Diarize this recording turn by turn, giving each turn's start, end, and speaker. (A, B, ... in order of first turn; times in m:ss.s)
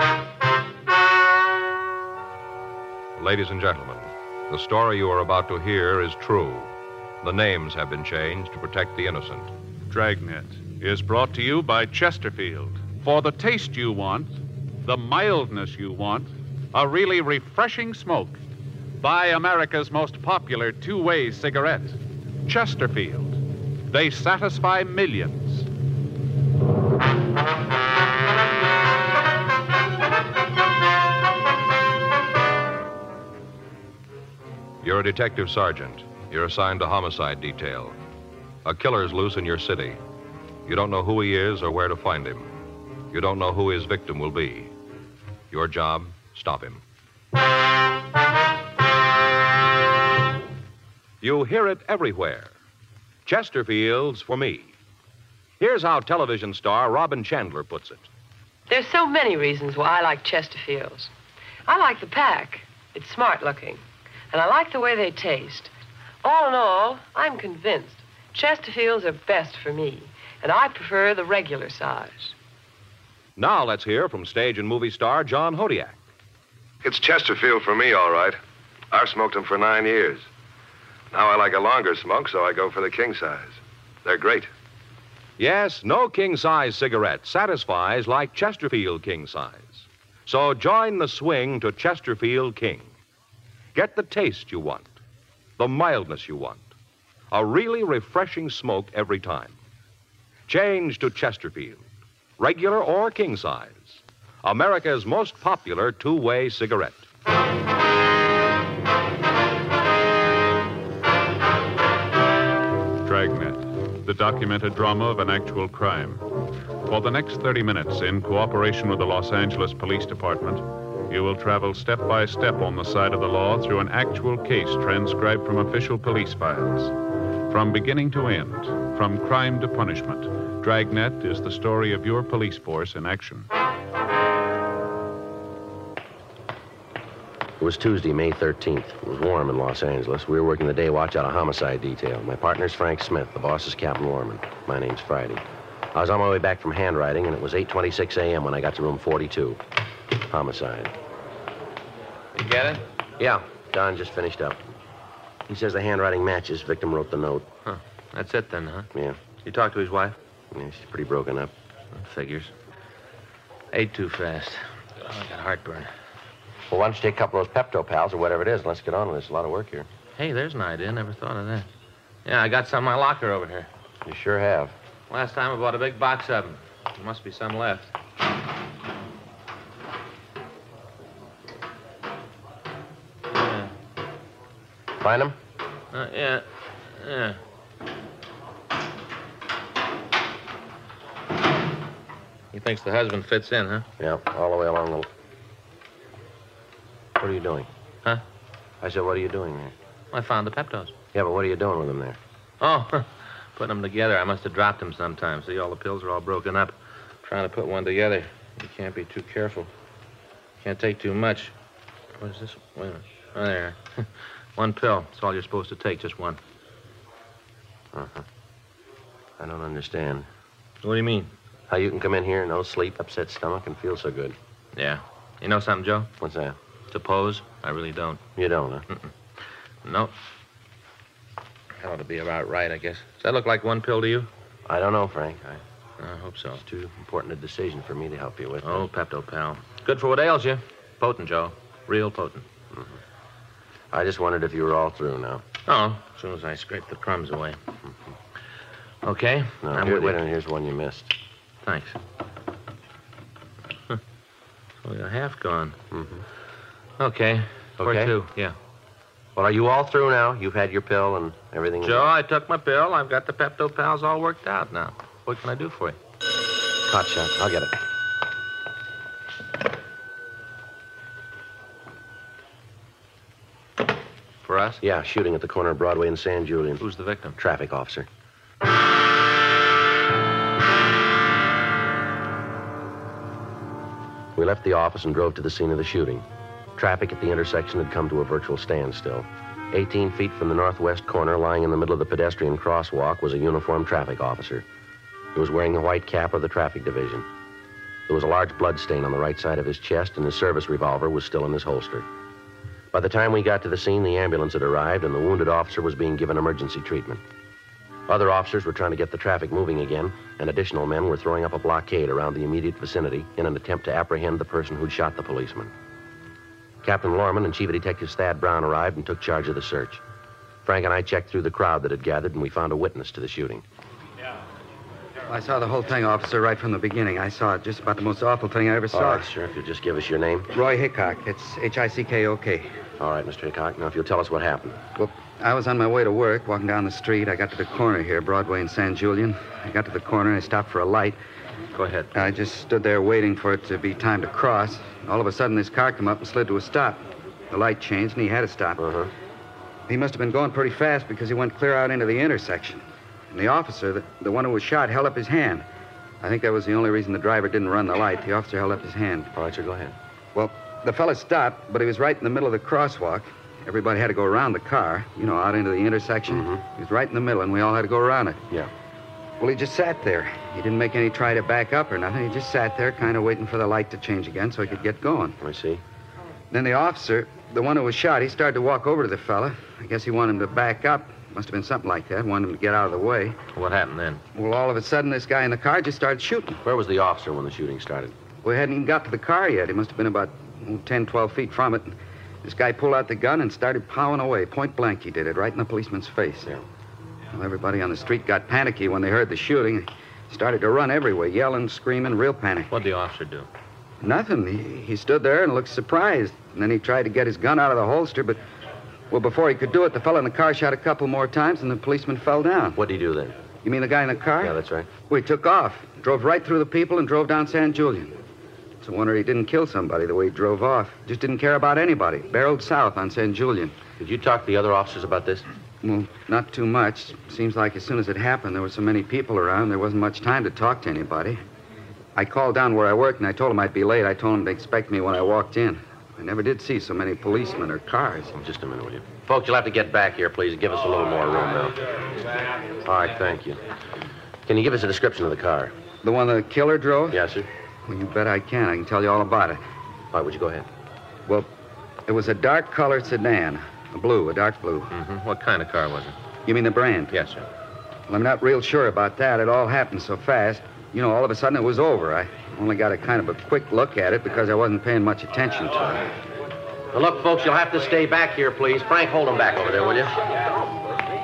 0:03.2-0:06.7 A
0:07.2-0:09.5 A
0:09.9-0:14.3 B
0:14.8-0:18.4 B
0:19.0-0:23.4 B
0:23.9-0:25.7 B
0:34.8-0:38.0 A
0:38.6-0:40.0 A
0:40.7-0:42.5 A
0:43.1-0:44.7 A
0:45.5-0:46.8 A
0:51.2-0:52.5 A
0:53.3-0:54.7 A
0:55.6-0:58.1 A
0:58.7-1:01.1 C
1:01.6-1:05.7 C
1:06.2-1:12.4 C
1:13.4-1:16.0 A
1:16.8-1:18.4 D
1:18.9-1:20.3 D
1:21.1-1:24.5 D
1:25.4-1:32.9 A
1:33.8-1:34.9 A
1:35.6-1:36.7 A
1:37.3-1:39.6 A
1:40.5-1:41.8 A
1:42.4-1:47.1 A
1:53.0-1:56.2 B
1:56.9-2:07.0 B
2:07.5-2:13.5 B
2:17.6-2:25.4 E
2:25.9-2:29.6 E
2:30.3-2:30.9 E
2:32.4-2:32.8 F
2:33.2-2:34.6 E
2:35.5-2:37.5 E
2:37.6-2:38.9 F
2:38.9-2:39.2 E
2:39.4-2:40.2 F
2:40.5-2:41.5 E
2:41.9-2:42.5 F
2:43.7-2:45.9 F
2:46.7-2:49.9 E
2:50.2-2:51.7 F
2:52.2-2:53.7 F
2:54.0-2:54.8 E
2:55.1-2:57.9 F
3:03.3-3:03.7 F
3:05.0-3:05.4 E
3:05.9-3:07.4 F
3:12.5-3:13.9 F
3:14.0-3:15.1 E
3:17.2-3:17.7 E
3:18.8-3:19.8 E
3:20.1-3:20.9 F
3:21.1-3:22.2 E
3:22.6-3:29.7 F
3:30.6-3:31.5 F
3:32.2-3:36.4 F
3:37.9-3:38.3 E
3:39.4-3:40.3 E
3:40.8-3:41.3 F
3:41.7-3:44.4 E
3:44.8-3:46.1 F
3:46.2-3:46.6 E
3:46.9-3:48.2 F
3:48.4-3:48.9 E
3:49.8-3:50.1 F
3:51.8-3:54.3 F
3:54.7-3:55.6 E
3:56.0-3:56.6 F
3:56.6-3:58.9 E
3:58.6-4:02.5 F
4:03.9-4:05.4 E
4:05.7-4:07.6 F
4:09.0-4:10.2 F
4:09.6-4:11.1 E
4:11.6-4:12.0 F
4:14.8-4:15.8 F
4:15.9-4:16.2 E
4:17.0-4:18.6 F
4:17.8-4:18.2 E
4:19.4-4:22.1 E
4:21.8-4:26.0 F
4:26.9-4:27.8 E
4:34.4-4:34.8 F
4:34.8-4:36.8 E
4:36.8-4:37.4 F
4:37.4-4:38.1 E
4:44.4-4:54.6 E
4:55.3-4:57.3 E
4:58.1-5:02.1 E
5:02.9-5:07.2 E
5:08.1-5:15.7 E
5:16.8-5:20.0 E
5:20.6-5:23.6 E
5:25.3-5:29.3 G
5:28.9-5:30.5 E
5:30.5-5:32.7 G
5:33.0-5:34.8 E
5:35.0-5:41.2 G
5:41.8-5:42.3 F
5:42.1-5:48.8 G
5:48.8-5:49.1 E
5:49.9-5:55.6 G
5:56.2-5:59.3 G
5:59.4-6:00.0 E
6:00.4-6:08.4 G
6:06.3-6:06.6 E
6:09.4-6:15.4 G
6:15.4-6:15.8 E
6:16.5-6:23.4 G
6:23.6-6:24.2 F
6:24.4-6:26.6 G
6:26.6-6:28.2 E
6:28.4-6:36.5 G
6:37.3-6:42.7 G
6:42.7-6:43.5 F
6:44.0-6:48.4 G
6:49.1-6:52.8 G
6:52.8-6:53.4 E
6:53.6-6:58.1 G
6:54.4-6:54.9 E
6:58.8-7:03.8 G
7:04.0-7:05.5 E
7:05.8-7:11.4 G
7:12.2-7:18.3 G
7:18.3-7:21.8 E
7:22.8-7:23.6 E
7:24.4-7:25.8 E
7:26.0-7:27.2 G
7:27.1-7:27.5 E
7:27.9-7:29.6 G
7:30.1-7:30.7 E
7:32.1-7:34.9 G
7:34.9-7:36.2 F
7:36.5-7:37.1 G
7:37.1-7:37.4 F
7:38.1-7:46.0 G
7:46.9-7:50.2 E